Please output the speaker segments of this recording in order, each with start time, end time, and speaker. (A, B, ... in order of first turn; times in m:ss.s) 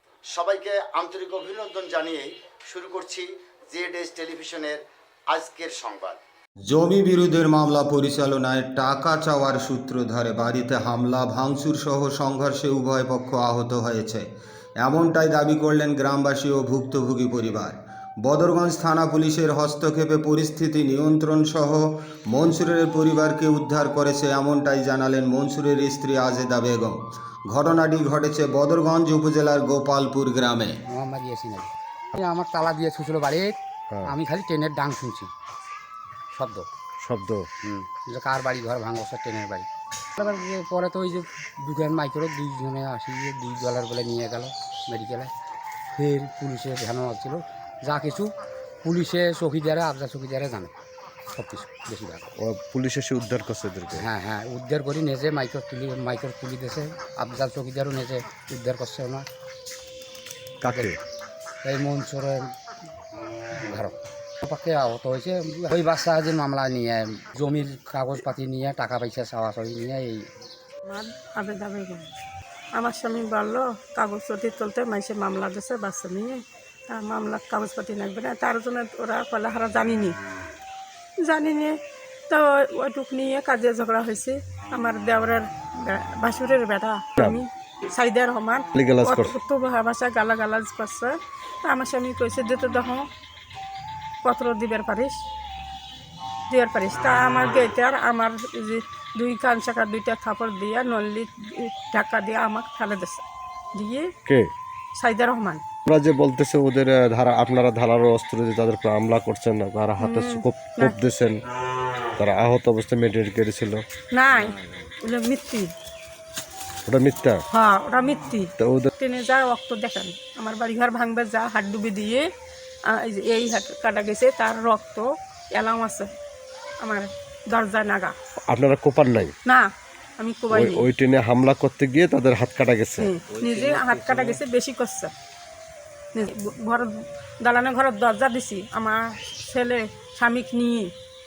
0:00.3-0:06.2 A
0:06.7-0:14.3 B
0:14.8-0:30.8 B
0:30.9-0:35.3 C
0:36.3-0:36.7 C
0:37.0-0:37.4 D
0:37.6-0:45.3 C
0:45.9-0:48.3 C
0:48.8-0:50.7 C
0:51.3-0:52.3 C
0:52.4-0:54.1 D
0:53.9-0:59.3 C
1:00.6-1:01.0 D
1:01.6-1:02.5 C
1:03.5-1:10.3 C
1:10.9-1:12.1 E
1:12.8-1:20.2 E
1:21.2-1:21.8 E
1:22.3-1:33.1 E
1:28.8-1:29.3 D
1:34.2-1:35.2 E
1:36.5-1:44.1 E
1:45.0-1:45.6 E
1:45.9-1:51.4 D
1:50.0-1:51.0 E
1:52.2-1:53.8 D
1:54.1-1:55.7 E
1:56.9-1:57.4 D
1:57.5-2:02.3 E
1:58.6-1:58.9 D
2:02.9-2:06.1 E
2:06.8-2:08.2 E
2:08.5-2:09.3 D
2:10.2-2:10.9 E
2:10.5-2:14.4 D
2:13.0-2:15.1 E
2:16.1-2:20.9 E